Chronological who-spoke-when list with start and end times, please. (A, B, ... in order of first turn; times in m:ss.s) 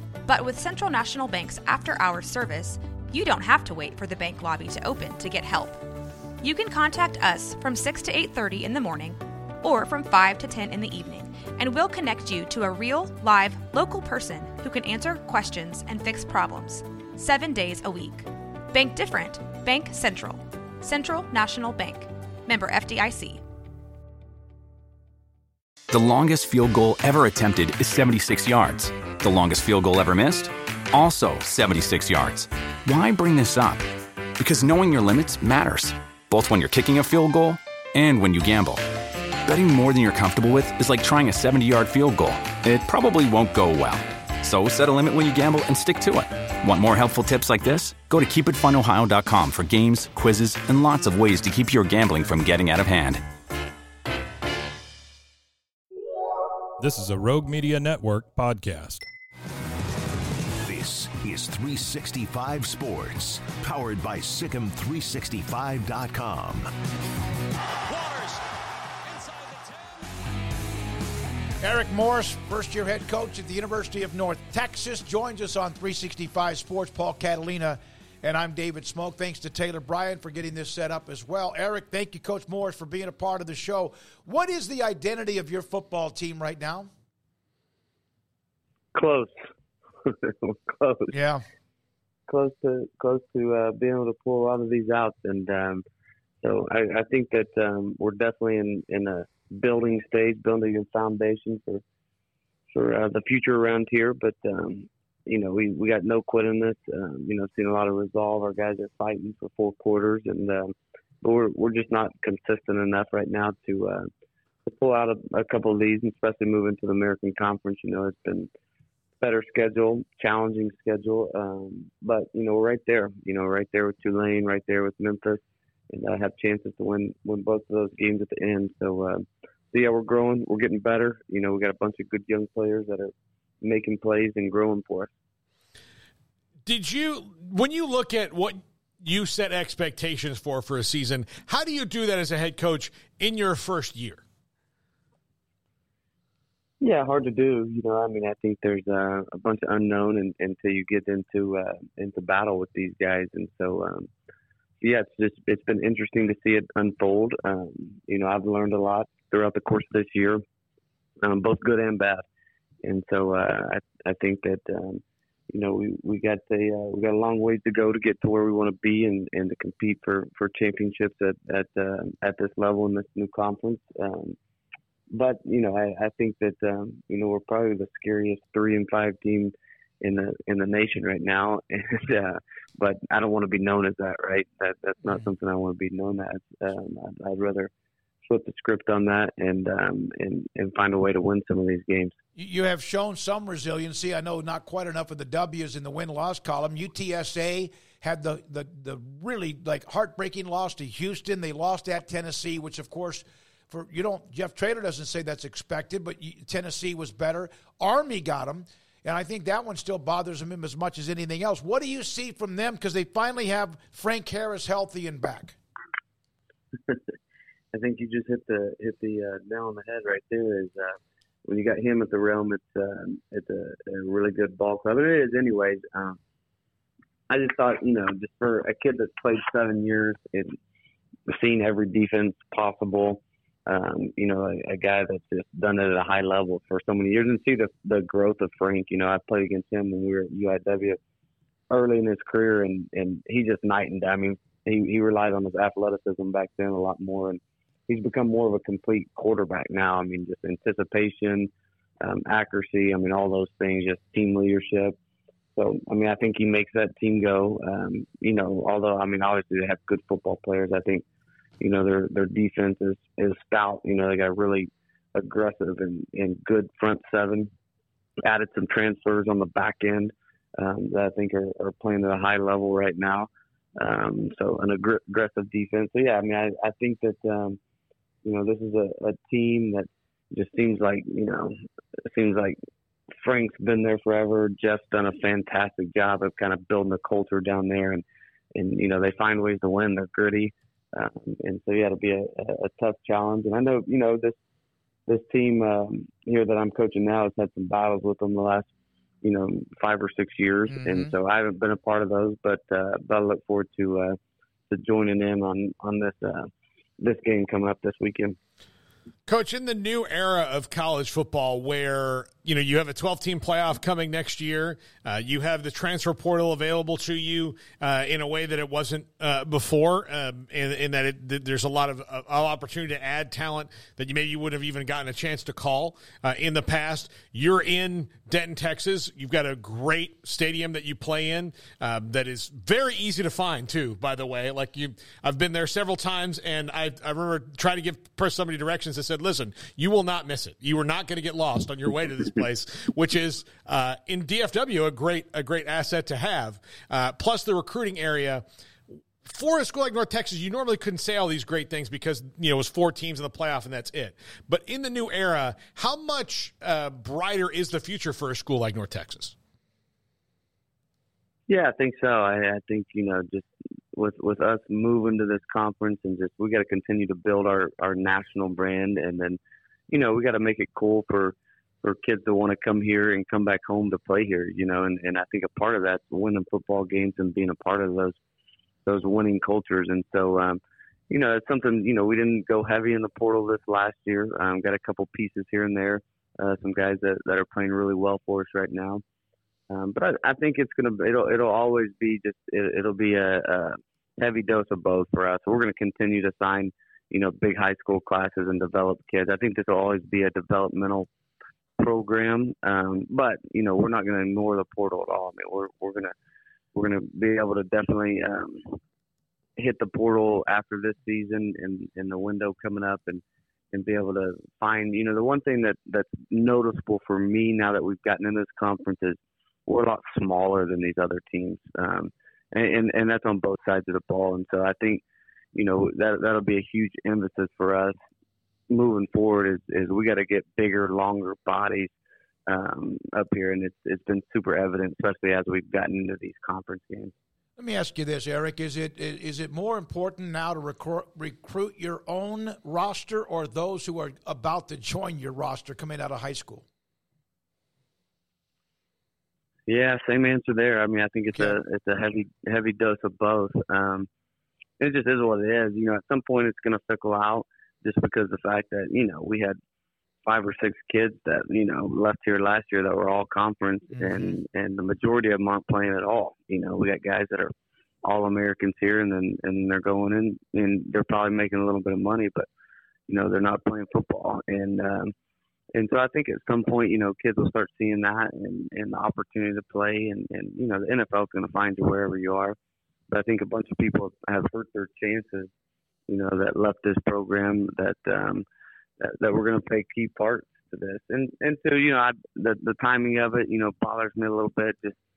0:00.2-0:05.8 A
0:06.4-0:23.4 A
0:25.9-0:33.9 B
0:34.4-0:38.8 B
0:39.4-0:53.2 B
0:56.8-0:59.1 C
1:00.6-1:06.7 D
1:08.0-1:08.2 C
1:11.6-1:26.9 E
1:28.9-1:29.3 F
1:30.0-1:31.1 F
1:31.1-1:31.4 E
1:32.3-1:35.8 F
1:36.4-1:41.8 F
1:42.7-1:54.1 F
1:54.7-1:58.5 F
1:59.2-2:15.1 F
2:16.6-2:24.2 G
2:26.8-2:34.1 F
2:34.8-2:40.4 F
2:41.2-2:42.2 F
2:42.8-2:54.4 F
2:55.1-3:07.7 F
3:08.3-3:12.2 F
3:12.4-3:35.6 E
3:37.7-3:46.2 F
3:47.3-3:50.5 F
3:51.3-4:01.0 F
4:01.7-4:11.5 F
4:12.0-4:15.0 F
4:15.6-4:21.0 F
4:21.6-4:27.5 F
4:28.2-4:37.6 F
4:38.2-4:41.6 F
4:42.1-4:42.6 F
4:43.2-4:48.0 F
4:48.6-4:54.4 F
4:55.1-4:58.7 F
4:59.2-5:04.2 F
5:00.7-5:01.1 E
5:04.7-5:06.5 F
5:07.0-5:08.4 F
5:09.3-5:48.4 G
5:49.2-5:59.4 G
6:01.5-6:18.2 F
6:18.9-6:29.0 F
6:29.7-6:41.1 F
6:41.8-6:46.1 F
6:46.8-6:48.8 F
6:49.6-7:05.0 F
7:05.6-7:08.0 F
7:08.7-7:11.9 F
7:12.5-7:17.1 F
7:17.6-7:26.7 E
7:29.7-7:34.1 F
7:34.8-7:39.6 F
7:40.2-7:47.5 F
7:43.9-7:44.4 E
7:48.0-7:52.5 F
7:53.1-7:55.1 F
7:55.7-8:02.6 F
8:03.1-8:05.5 F
8:06.1-8:08.4 F
8:09.0-8:15.0 F